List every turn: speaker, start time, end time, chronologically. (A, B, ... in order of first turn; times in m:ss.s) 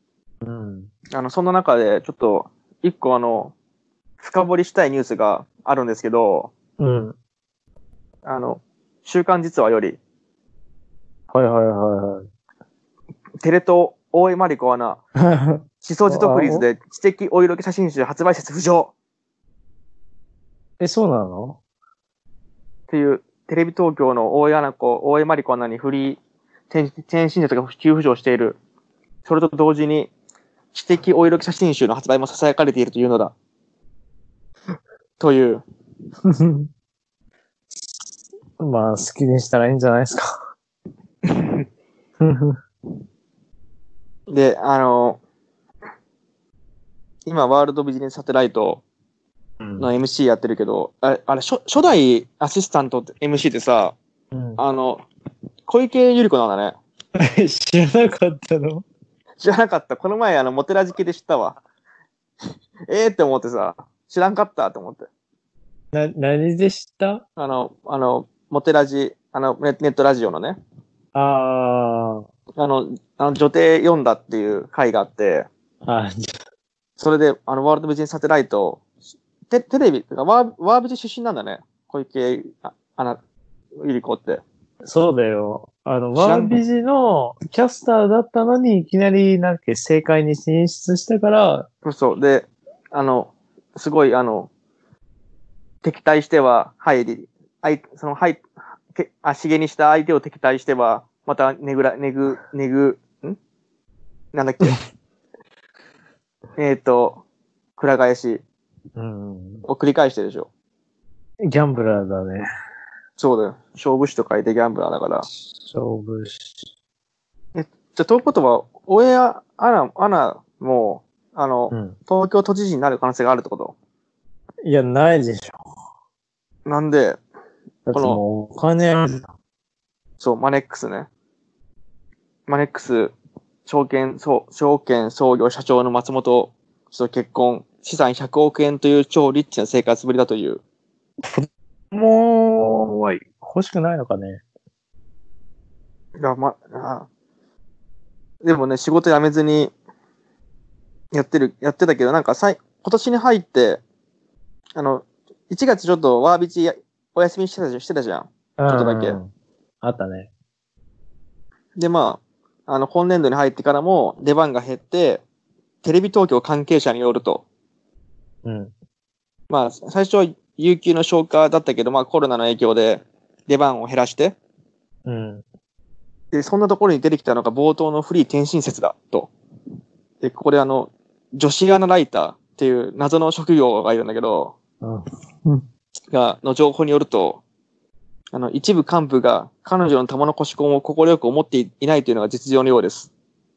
0:00.4-0:00.9 A
0:01.1-0:03.5 B
0:04.2-0:06.5 B
0:06.8-0:07.2 A
0:08.2-0:10.0 B
0:11.3-0:12.3 A
0:13.4-0:15.0 B
0:15.2-0:16.7 A
0:15.8-0:18.9 B
0:20.8-0:21.6 A
0:22.9-0:26.2 B
0:26.7-0:28.6 B
0:29.2-0:30.1 B
0:30.7-0:33.3 B
0:35.2-0:35.6 B
0:36.2-0:36.7 A
0:38.6-0:40.3 A
0:41.3-0:41.6 B
0:42.2-0:42.6 A
0:44.3-0:45.2 B
0:47.3-0:48.8 B
0:49.6-0:49.9 A
0:49.8-0:54.0 B
0:54.3-0:54.6 A
0:54.6-0:55.1 B
0:55.7-0:56.8 B
0:57.2-0:58.8 A
0:59.4-1:01.6 B
1:02.9-1:05.1 B
1:05.9-1:07.2 A
1:07.4-1:10.6 B
1:11.2-1:12.2 A
1:12.6-1:15.5 B
1:15.8-1:16.3 A
1:17.0-1:18.8 B
1:19.5-1:23.2 B
1:23.8-1:24.4 B
1:24.8-1:31.7 A
1:26.2-1:26.6 B
1:31.8-1:34.5 B
1:35.8-1:38.4 B
1:38.9-1:43.4 B
1:44.3-1:44.8 B
1:46.6-1:47.2 B
1:47.8-1:48.4 B
1:49.0-1:49.6 A
1:49.7-1:50.5 B
1:51.4-1:52.5 A
1:53.2-1:55.3 B
1:55.5-1:56.7 A
1:57.6-2:03.8 B
2:01.7-2:02.0 A
2:04.6-2:05.6 A
2:06.7-2:07.2 B
2:07.9-2:09.3 A
2:07.9-2:08.2 B
2:10.2-2:11.1 B
2:12.5-2:13.1 B
2:13.7-2:20.6 B
2:21.2-2:24.4 A
2:26.2-2:27.1 B
2:28.4-2:29.7 B
2:31.1-2:33.8 B
2:34.8-2:39.2 B
2:38.6-2:39.3 A
2:39.8-2:40.3 A
2:41.8-2:45.2 B
2:45.8-2:47.4 B
2:48.4-2:48.7 A
2:49.5-2:54.4 B
2:55.1-2:55.4 A
2:56.3-2:59.3 B
3:00.2-3:04.6 B
3:04.8-3:05.6 A
3:06.1-3:07.4 B
3:08.3-3:13.1 B